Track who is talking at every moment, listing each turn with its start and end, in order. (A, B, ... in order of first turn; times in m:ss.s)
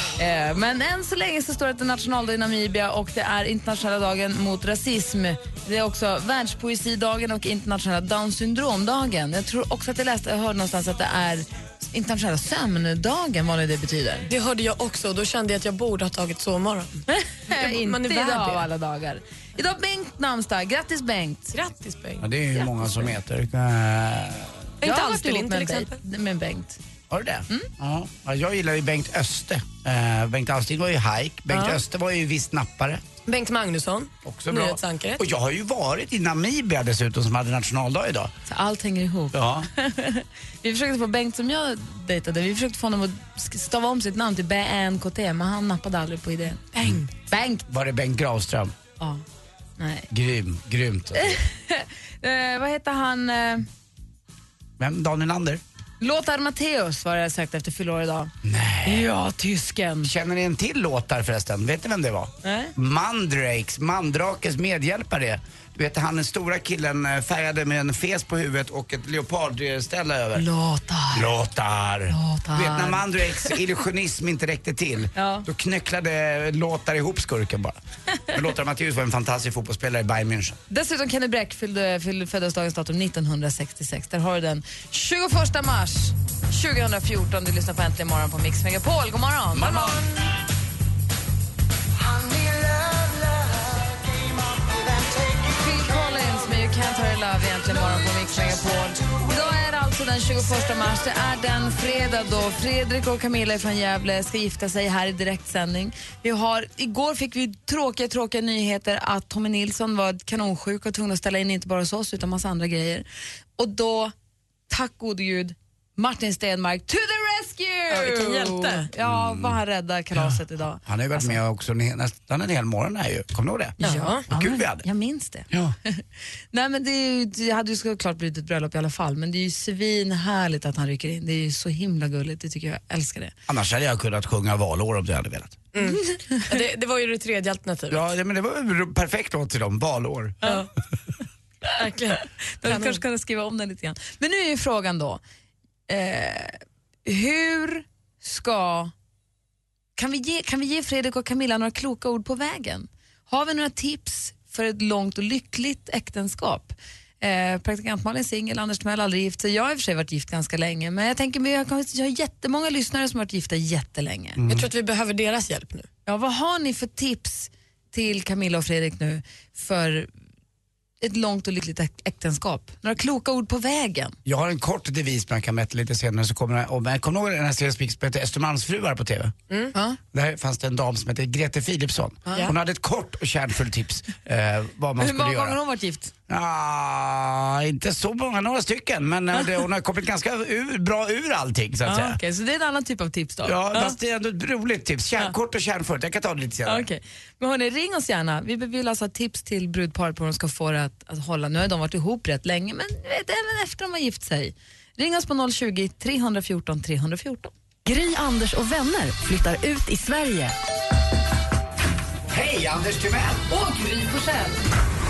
0:00.2-0:14.3 A
0:14.3-0:18.7 B
0:17.1-0:21.6 A
0:21.5-0:23.0 B
0:22.2-0:24.7 C
0:24.8-0:26.0 B
0:24.8-0:26.8 A
0:27.1-0:33.0 C
0:31.5-0:31.8 B
0:33.2-0:35.2 B
0:34.2-0:38.3 C
0:38.5-0:46.7 A
0:39.3-0:39.7 C
0:46.8-0:47.1 B
0:47.2-0:47.6 A
0:47.7-0:48.7 C
0:49.8-0:50.1 A
0:50.1-0:51.4 C
0:51.2-0:53.6 A
0:54.8-0:55.6 C
0:56.0-0:58.3 A
0:58.4-0:59.1 C
0:58.8-1:00.1 A
1:00.0-1:10.4 C
1:02.4-1:02.7 A
1:10.4-1:11.3 A
1:11.1-1:17.8 C
1:12.1-1:13.0 A
1:15.2-1:15.4 A
1:18.3-1:20.6 C
1:20.7-1:30.0 A
1:29.5-1:30.0 C
1:35.4-1:53.1 A
1:53.6-1:54.1 A
1:54.7-2:01.4 A
1:57.9-1:58.9 B
1:59.0-1:59.6 C
2:00.8-2:04.8 C
2:03.8-2:13.3 A
2:03.8-2:04.2 B
2:13.5-2:15.6 C
2:15.7-2:18.0 B
2:15.8-2:16.6 A
2:17.9-2:20.4 C
2:20.4-2:20.7 B
2:21.8-2:23.0 B
2:22.6-2:25.2 A
2:25.9-2:28.9 A
2:30.0-2:44.4 A
2:44.4-2:44.7 C
2:44.5-2:45.9 B
2:46.1-2:50.1 A
2:51.0-2:54.2 A
2:54.2-2:59.3 C
3:00.1-3:05.6 C
3:05.0-3:06.1 A
3:06.3-3:12.2 C
3:11.8-3:14.0 A
3:13.4-3:16.9 C
3:16.6-3:27.5 A
3:27.8-3:30.6 D
3:32.3-3:33.4 C
3:33.5-3:34.6 A